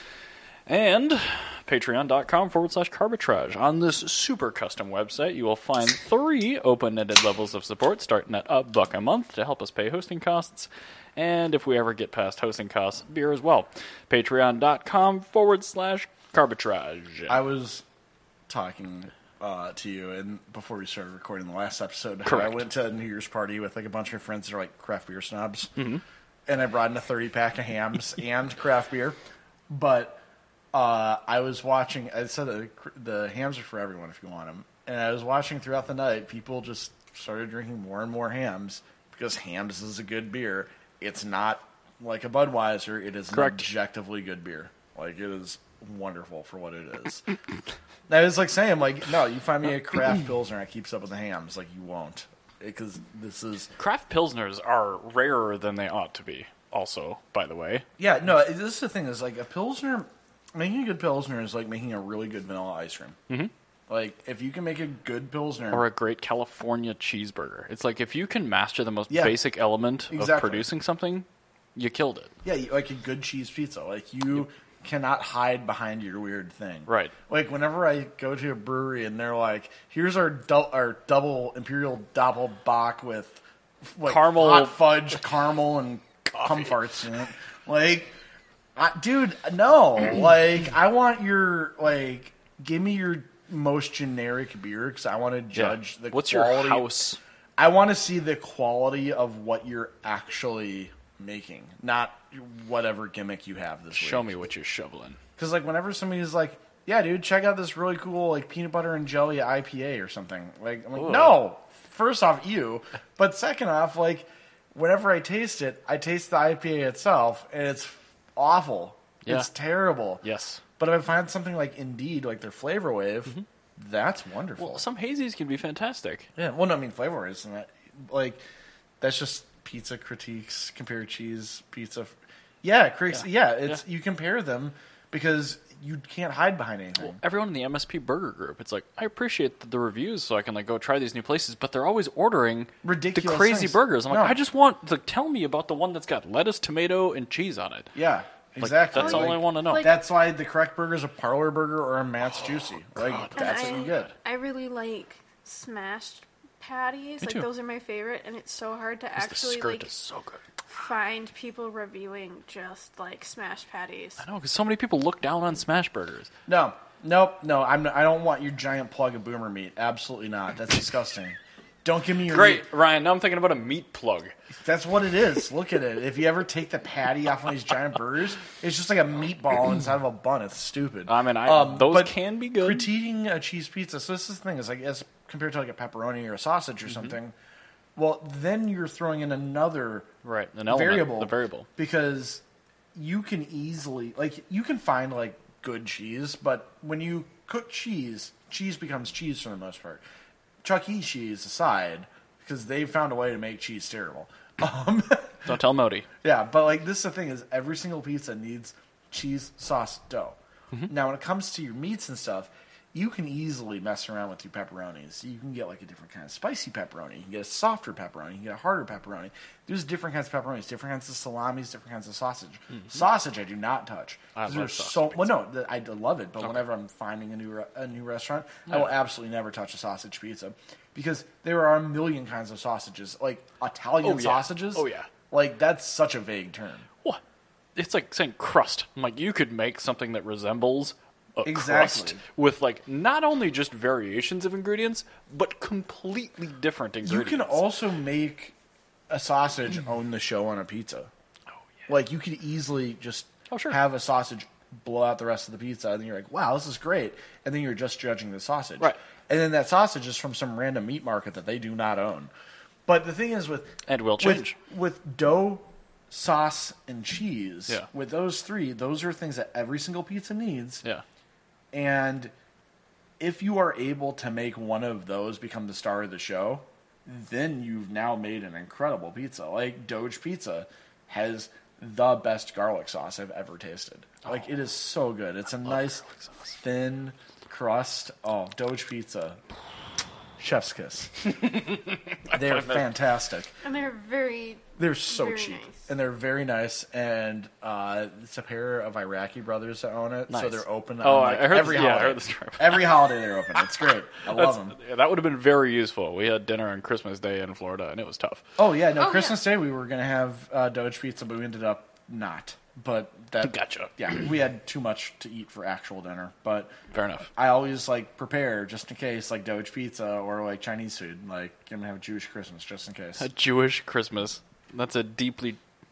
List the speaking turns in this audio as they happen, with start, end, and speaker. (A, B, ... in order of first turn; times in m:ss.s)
0:00.7-0:17.4 A
0:17.3-0:17.8 B
0:18.5-0:25.8 B
0:22.3-0:22.6 A
0:25.8-0:26.0 A
0:26.5-0:29.2 B
0:29.7-0:30.2 B
0:30.7-0:47.2 B
0:43.3-0:43.7 A
0:48.1-0:53.7 B
0:53.8-0:57.8 A
0:58.0-1:03.2 B
1:03.9-1:05.8 B
1:05.7-1:12.3 A
1:10.1-1:10.7 B
1:12.4-1:28.1 B
1:16.9-1:17.1 A
1:24.0-1:24.8 A
1:28.8-1:36.9 B
1:35.5-1:37.2 A
1:37.6-1:44.3 B
1:43.9-1:45.2 A
1:45.4-2:00.2 B
1:51.0-1:51.4 A
2:00.2-2:00.6 A
2:00.8-2:04.8 B
2:04.6-2:06.3 A
2:06.4-2:08.4 B
2:09.0-2:17.2 B
2:17.0-2:27.9 A
2:22.8-2:24.4 B
2:27.9-2:34.1 B
2:28.6-2:29.9 A
2:28.9-2:30.0 C
2:32.9-2:34.1 A
2:33.4-2:39.9 C
2:37.2-2:37.5 A
2:39.2-2:40.4 A
2:40.7-2:44.2 C
2:44.2-2:46.3 A
2:46.5-2:52.7 B
2:52.3-2:54.3 A
2:54.6-3:07.3 B
3:01.1-3:02.9 A
3:08.0-3:10.1 B
3:10.2-3:11.7 A
3:10.7-3:12.4 B
3:12.9-3:20.0 B
3:20.6-3:25.5 B
3:25.5-3:26.1 A
3:26.2-3:56.9 B
3:44.4-3:45.4 A
3:54.0-3:55.1 A
3:57.8-4:07.6 A
4:01.4-4:02.2 B
4:07.0-4:08.6 B
4:09.1-4:11.1 B
4:11.9-4:22.3 B
4:13.5-4:13.8 A
4:22.9-4:30.8 B
4:23.9-4:24.6 A
4:31.7-4:32.3 B
4:33.2-4:46.0 B
4:45.7-4:46.6 A
4:46.6-4:49.4 B
4:50.4-4:51.2 B
4:51.3-4:52.9 A
4:52.3-4:53.5 B
4:53.6-4:55.9 C
4:54.8-5:04.8 B
5:00.3-5:02.9 A
5:04.3-5:08.4 A
5:08.6-5:16.7 B
5:09.0-5:09.4 C
5:13.4-5:14.0 A
5:16.9-5:17.3 A
5:17.3-5:23.2 B
5:23.2-5:25.6 A